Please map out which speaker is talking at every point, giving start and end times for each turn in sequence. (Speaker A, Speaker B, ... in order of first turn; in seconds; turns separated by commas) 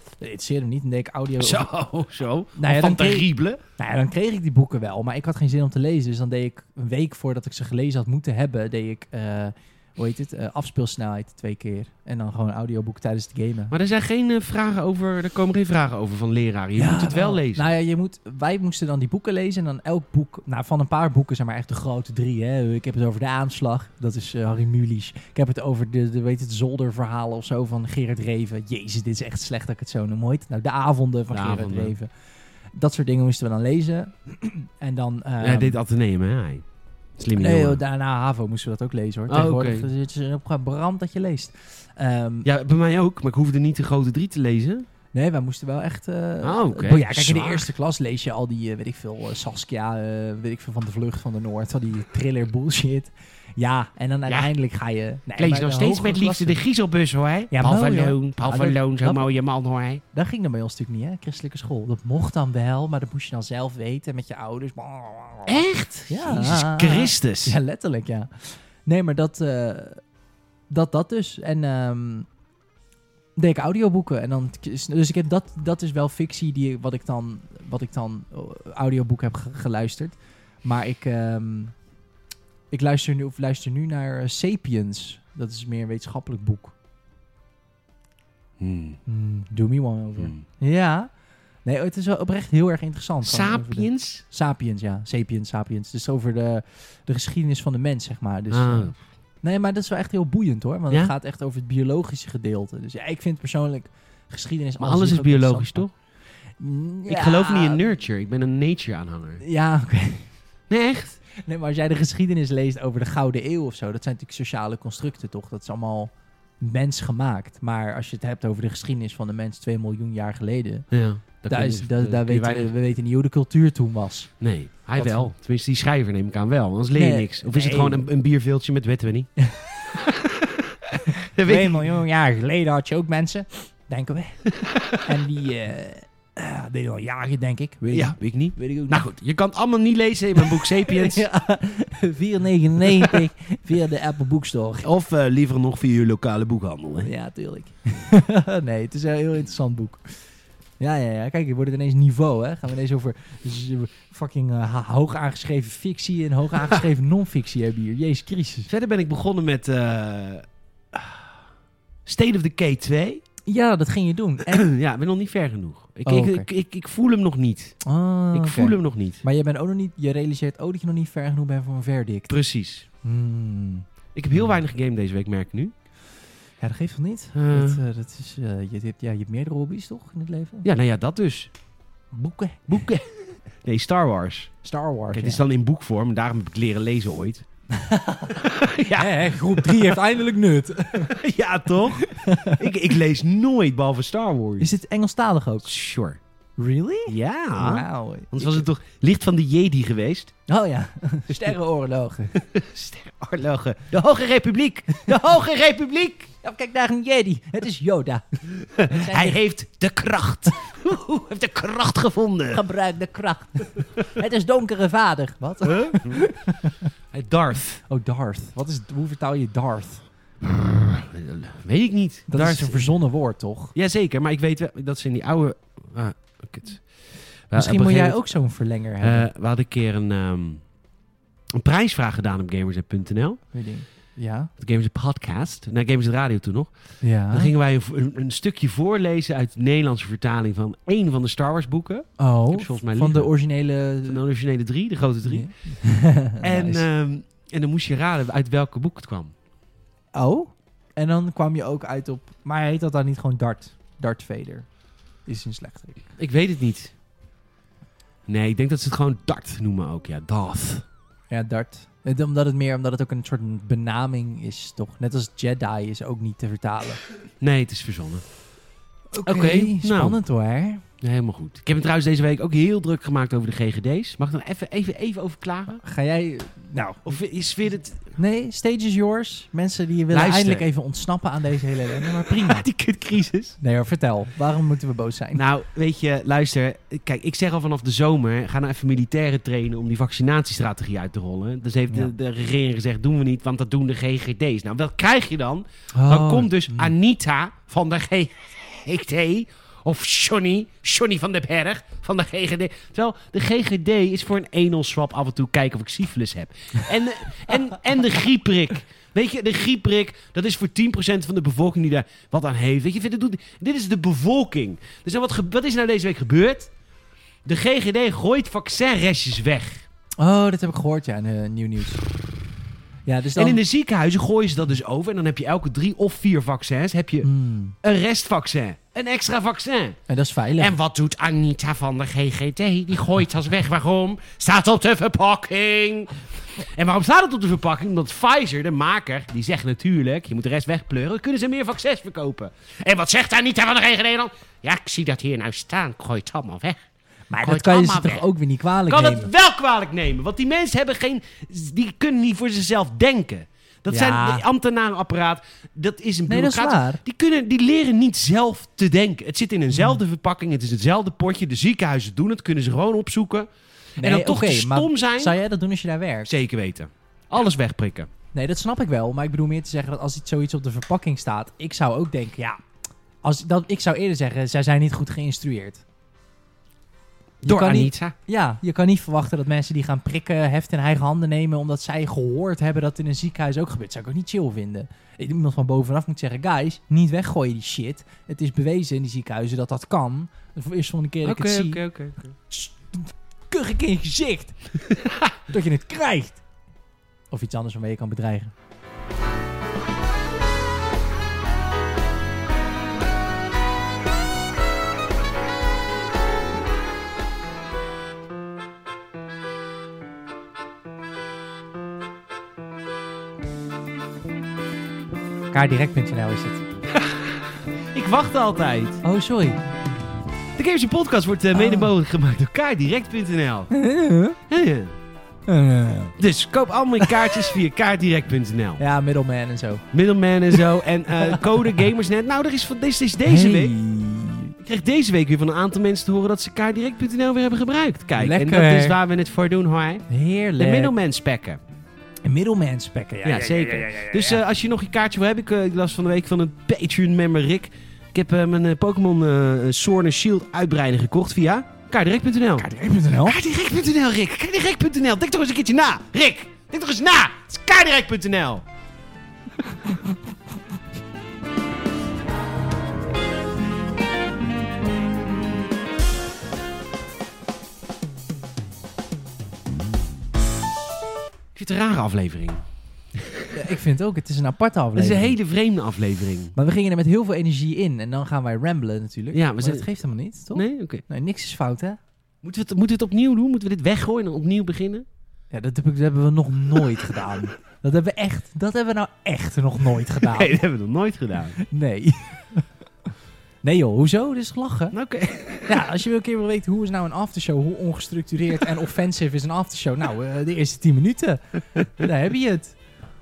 Speaker A: 0.2-1.7, Speaker B: 1.4-3.6, Speaker A: 2.5-13.7, Speaker B: 13.7-17.7, Speaker A: 16.8-32.1, Speaker B: 31.3-31.9, Speaker A: 32.7-35.8, Speaker B: 35.4-36.6, Speaker B: 37.2-37.8, Speaker A: 37.4-42.5, Speaker B: 39.3-39.9, Speaker B: 42.4-44.9, Speaker A: 45.1-56.6, Speaker B: 46.4-47.7, Speaker B: 55.4-60.0, Speaker A: 57.5-59.3, Speaker A: 60.1-70.0, Speaker B: 65.5-67.5, Speaker A: 70.7-72.3, Speaker A: 73.4-81.7, Speaker A: 82.7-86.7, Speaker B: 88.6-89.0, Speaker A: 89.0-91.1, Speaker A: 91.6-105.9, Speaker B: 93.2-94.2, Speaker B: 98.5-98.9, Speaker B: 104.8-105.9, Speaker A: 106.6-107.8, Speaker B: 107.1-109.4, Speaker A: 109.4-110.3, Speaker B: 110.7-111.2, Speaker A: 111.3-120.9, Speaker B: 120.9-122.7, Speaker A: 121.5-124.3, Speaker B: 124.4-129.3, Speaker A: 125.0-125.3, Speaker A: 126.9-128.1, Speaker B: 129.8-131.9, Speaker A: 131.4-139.0, Speaker B: 134.6-135.0, Speaker B: 137.9-141.2, Speaker A: 140.4-144.9, Speaker B: 144.8-147.1, Speaker A: 147.0-150.2, Speaker A: 150.8-158.7, Speaker B: 158.7-161.3, Speaker B: 162.1-163.2, Speaker A: 163.5-164.7, Speaker B: 164.5-167.8, Speaker A: 166.1-166.5, Speaker A: 167.8-172.3, Speaker B: 168.3-169.2, Speaker B: 172.3-172.8, Speaker A: 173.0-173.8, Speaker B: 174.1-175.7, Speaker A: 176.6-180.7, Speaker B: 177.3-177.8, Speaker B: 180.6-181.5, Speaker A: 182.1-182.8, Speaker B: 182.7-183.1, Speaker B: 183.6-184.5, Speaker A: 184.6-185.4, Speaker B: 185.1-187.4, Speaker A: 187.7-188.4, Speaker B: 188.3-190.0, Speaker A: 188.9-191.1, Speaker B: 191.0-194.7, Speaker A: 191.9-192.7, Speaker A: 194.6-195.7, Speaker B: 195.6-196.2, Speaker A: 196.6-198.7, Speaker B: 197.1-200.3, Speaker A: 200.5-202.4, Speaker B: 202.3-206.3, Speaker A: 204.9-205.2, Speaker A: 206.4-209.4, Speaker B: 208.6-212.6, Speaker A: 212.5-216.9, Speaker B: 215.6-216.2, Speaker B: 217.1-217.8, Speaker A: 217.9-220.0, Speaker B: 220.4-222.9, Speaker A: 222.3-223.7, Speaker B: 223.7-228.3, Speaker A: 227.5-229.3, Speaker B: 229.0-230.6, Speaker B: 231.5-233.4, Speaker A: 233.5-234.5, Speaker B: 234.6-236.7, Speaker A: 237.0-237.5, Speaker B: 237.3-243.3, Speaker A: 242.2-244.2, Speaker B: 244.0-245.5, Speaker A: 245.2-246.8, Speaker B: 246.4-249.3, Speaker A: 250.1-254.7, Speaker A: 255.2-256.1, Speaker B: 256.2-256.9, Speaker B: 258.3-260.8, Speaker A: 261.3-267.0, Speaker B: 267.4-268.2, Speaker A: 269.1-270.8, Speaker B: 269.2-270.2, Speaker B: 271.0-275.8, Speaker A: 275.8-277.2, Speaker B: 277.0-278.0, Speaker A: 278.1-282.7, Speaker B: 280.1-280.6, Speaker B: 281.9-283.6, Speaker A: 283.6-285.4, Speaker B: 285.3-316.7, Speaker A: 295.9-296.9, Speaker B: 317.4-319.9, Speaker A: 320.2-322.0, Speaker A: 323.1-323.6, Speaker B: 323.3-327.3, Speaker A: 327.2-327.7, Speaker B: 327.8-330.0, Speaker A: 330.1-330.8, Speaker B: 330.6-346.8, Speaker A: 347.3-349.3, Speaker B: 347.4-348.2, Speaker B: 348.9-363.5, Speaker A: 353.9-354.4, Speaker A: 356.3-357.0, Speaker A: 359.7-360.0, Speaker A: 364.0-366.3, Speaker B: 364.0-365.4, Speaker B: 366.3-368.1, Speaker A: 368.3-372.6, Speaker A: 373.2-375.8, Speaker B: 377.4-378.1, Speaker A: 377.4-391.8, Speaker B: 391.2-392.3, Speaker A: 392.5-394.7, Speaker A: 395.5-396.4, Speaker A: 397.3-398.5, Speaker A: 415.5-416.7, Speaker B: 416.9-419.0, Speaker A: 419.0-419.6, Speaker B: 420.6-423.7, Speaker A: 421.5-421.9, Speaker A: 423.7-424.4, Speaker B: 424.5-424.9, Speaker A: 425.5-426.2, Speaker B: 426.2-428.8, Speaker A: 427.0-427.5, Speaker A: 428.8-429.9, Speaker B: 429.9-433.7, Speaker A: 430.5-431.8, Speaker A: 433.2-434.5, Speaker B: 434.6-440.0, Speaker A: 438.2-439.0, Speaker A: 440.1-440.9, Speaker B: 440.6-441.6, Speaker A: 442.2-444.4, Speaker B: 443.2-452.7, Speaker A: 452.6-453.4, Speaker B: 453.2-458.6, Speaker B: 471.5-473.5, Speaker A: 473.5-475.3, Speaker B: 474.9-476.5, Speaker A: 476.5-482.0, Speaker B: 479.3-479.9, Speaker B: 480.5-481.0, Speaker B: 482.4-485.0, Speaker A: 485.5-490.6, Speaker B: 490.2-491.6, Speaker A: 491.6-492.6, Speaker A: 493.6-494.9, Speaker B: 494.9-495.9, Speaker A: 495.7-502.8